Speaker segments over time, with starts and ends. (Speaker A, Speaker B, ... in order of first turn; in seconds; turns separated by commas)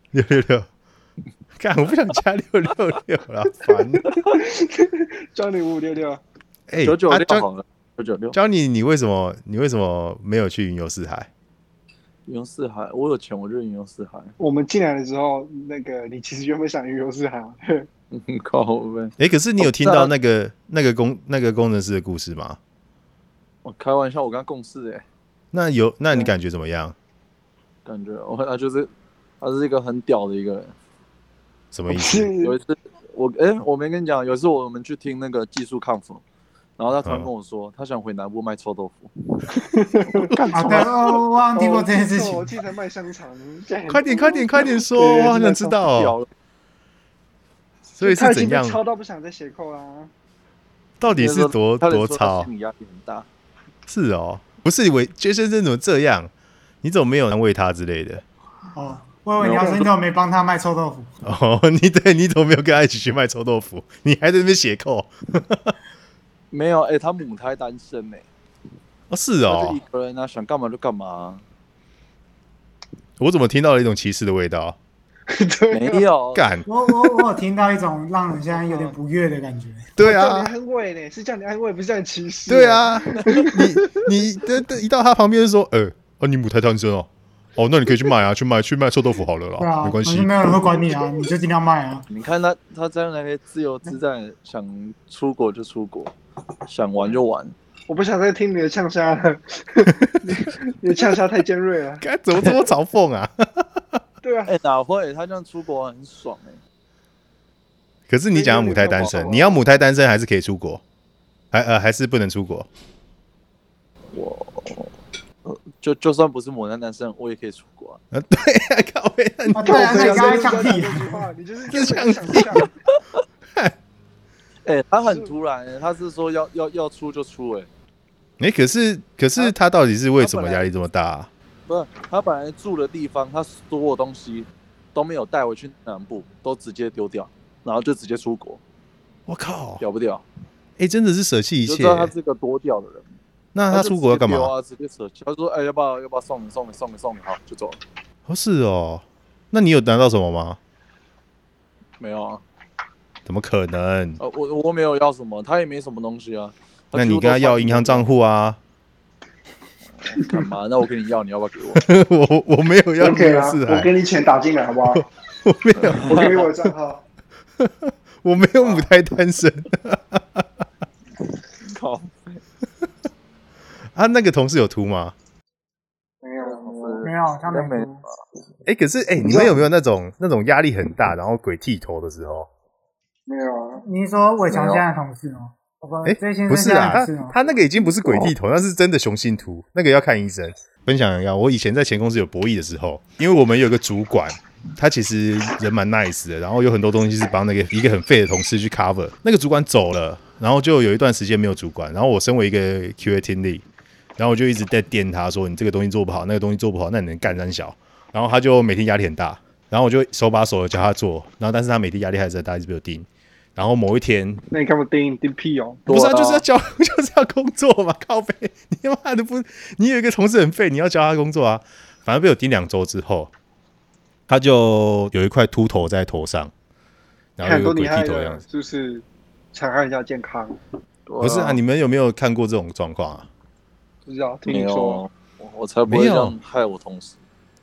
Speaker A: 0.1-0.7, Speaker A: 1.6-4.0, Speaker B: 4.1-6.2, Speaker A: 6.7-7.5, Speaker C: 6.8-8.4, Speaker A: 8.3-11.3, Speaker C: 12.2-14.3, Speaker B: 14.4-17.9, Speaker C: 18.1-20.1, Speaker A: 19.2-22.6, Speaker C: 23.6-25.0, Speaker A: 25.5-26.9, Speaker C: 27.9-28.9, Speaker C: 29.4-30.7, Speaker A: 31.7-32.3, Speaker B: 31.9-32.5, Speaker C: 32.4-36.2, Speaker C: 36.8-39.1, Speaker A: 37.0-37.3, Speaker B: 39.5-45.6, Speaker A: 40.2-40.8, Speaker D: 40.5-42.6, Speaker C: 40.6-40.9, Speaker A: 43.9-46.2, Speaker C: 45.0-46.3, Speaker B: 47.9-50.1, Speaker A: 48.0-48.8, Speaker A: 51.0-52.5, Speaker C: 51.1-53.2, Speaker A: 53.9-56.3, Speaker A: 56.8-58.2, Speaker D: 58.8-61.1, Speaker C: 59.4-59.9, Speaker A: 61.2-65.7, Speaker C: 66.5-68.3, Speaker A: 69.1-69.8, Speaker C: 69.5-71.4, Speaker A: 73.2-74.8, Speaker B: 75.3-76.0, Speaker C: 75.7-76.5, Speaker A: 76.3-76.7, Speaker D: 76.7-79.9, Speaker B: 78.5-79.0, Speaker A: 80.0-80.5, Speaker B: 80.0-84.0, Speaker A: 82.5-90.7, Speaker D: 89.6-92.0, Speaker C: 92.1-96.1, Speaker C: 96.7-97.5, Speaker B: 97.9-102.0, Speaker A: 102.0-103.7, Speaker B: 104.2-104.5, Speaker C: 104.5-106.6, Speaker A: 108.1-110.8, Speaker B: 108.3-109.6, Speaker A: 111.5-112.7, Speaker C: 114.1-114.9, Speaker C: 115.5-118.0, Speaker A: 118.1-120.7, Speaker D: 119.5-121.3, Speaker B: 119.6-122.7, Speaker A: 121.7-122.6, Speaker C: 124.6-127.7, Speaker B: 125.0-125.3, Speaker A: 128.4-131.3, Speaker C: 130.2-130.7, Speaker C: 131.7-138.6, Speaker A: 139.3-139.8, Speaker C: 139.8-140.2, Speaker A: 140.8-142.1, Speaker C: 141.7-143.1, Speaker A: 143.5-144.5, Speaker C: 143.7-147.8, Speaker A: 148.3-150.6, Speaker C: 152.0-152.4, Speaker A: 153.2-154.2, Speaker C: 154.2-158.0, Speaker A: 156.9-158.6, Speaker C: 159.9-161.9, Speaker B: 160.2-160.4, Speaker A: 161.8-163.9, Speaker B: 163.0-165.1, Speaker A: 164.9-166.4, Speaker C: 165.8-166.5, Speaker B: 166.1-167.0, Speaker A: 167.6-170.5, Speaker C: 171.6-172.4, Speaker A: 173.9-175.2, Speaker B: 176.2-177.1, Speaker C: 176.4-178.2, Speaker D: 177.0-178.0, Speaker A: 178.7-182.5, Speaker B: 183.3-183.8, Speaker D: 183.8-187.3, Speaker C: 184.5-184.8, Speaker A: 186.0-203.7, Speaker A: 204.2-214.4, Speaker B: 214.5-215.9, Speaker C: 215.9-216.5, Speaker A: 215.9-223.3, Speaker A: 224.3-226.5, Speaker A: 227.4-228.4, Speaker B: 227.4-230.6, Speaker C: 231.1-231.6, Speaker A: 231.2-233.3, Speaker B: 234.1-235.0, Speaker C: 234.5-237.2, Speaker A: 235.9-236.3